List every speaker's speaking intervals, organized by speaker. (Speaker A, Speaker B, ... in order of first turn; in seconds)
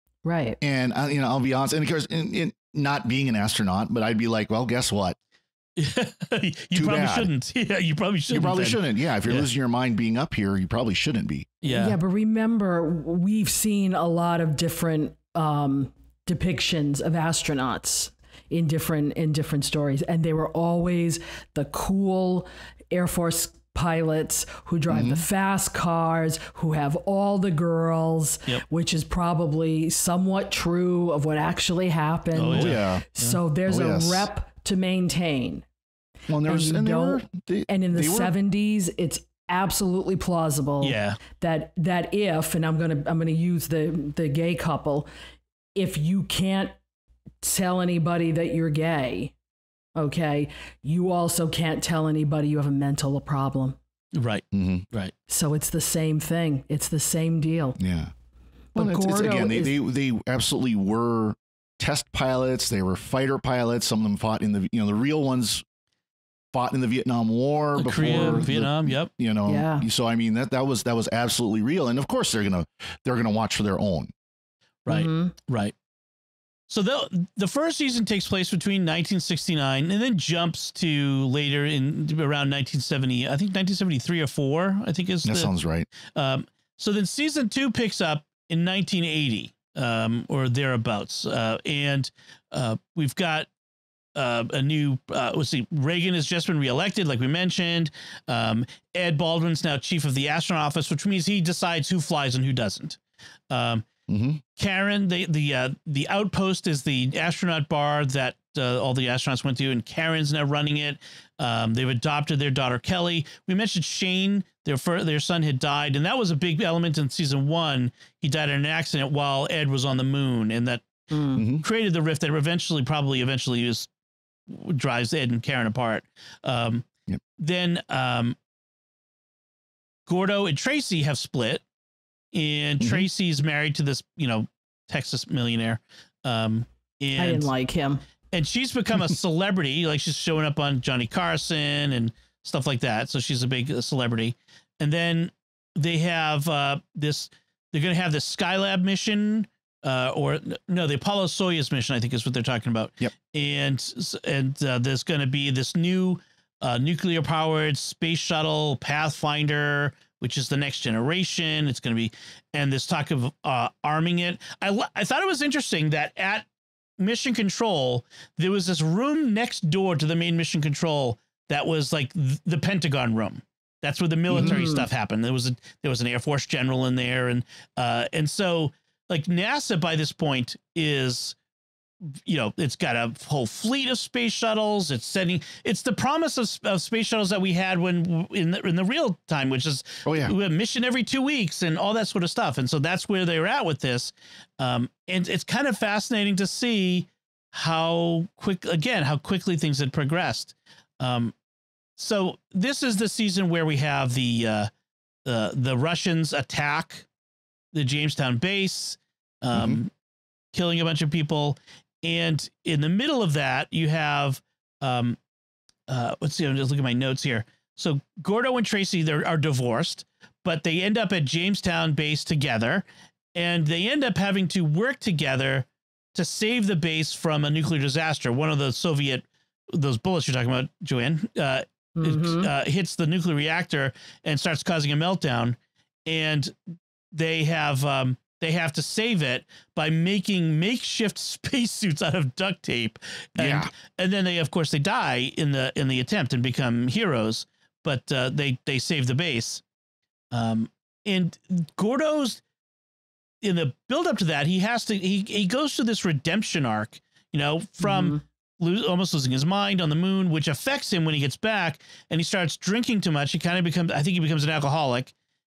Speaker A: 0.2-0.6, 11.7-35.6, 36.4-45.1, 45.7-46.7, 47.4-49.3, 50.0-53.8, 55.3-57.8, 58.7-59.7, 68.0-68.5, 69.5-69.8, 74.9-75.3, 121.1-121.4, 137.2-138.0, 174.3-174.9, 231.9-232.5, 257.8-258.2
Speaker B: 0.6-5.2, 6.7-7.3, 8.3-11.6, 24.9-25.2, 32.5-33.0, 33.7-34.3, 36.3-38.3, 54.5-54.9, 57.8-58.1, 58.8-65.6, 66.5-74.1, 85.2-85.9, 104.1-104.4, 121.3-121.6, 132.8-133.1, 174.3-174.6, 190.1-190.3, 209.5-209.8, 243.4-243.7
Speaker C: 5.8-9.5, 11.6-11.9, 32.3-33.4, 40.8-41.2, 54.1-55.1, 67.8-69.1, 74.8-75.7, 76.7-85.5, 86.0-93.5, 94.1-103.0, 103.5-103.8, 104.5-120.9, 121.6-123.9, 124.5-126.8, 127.4-128.3, 130.1-131.6, 132.3-137.5, 138.3-166.5, 167.0-181.3, 182.2-201.3, 202.0-204.7, 205.2-207.1, 207.7-209.9, 210.5-215.2, 215.9-249.6, 250.3-252.4, 253.4-265.1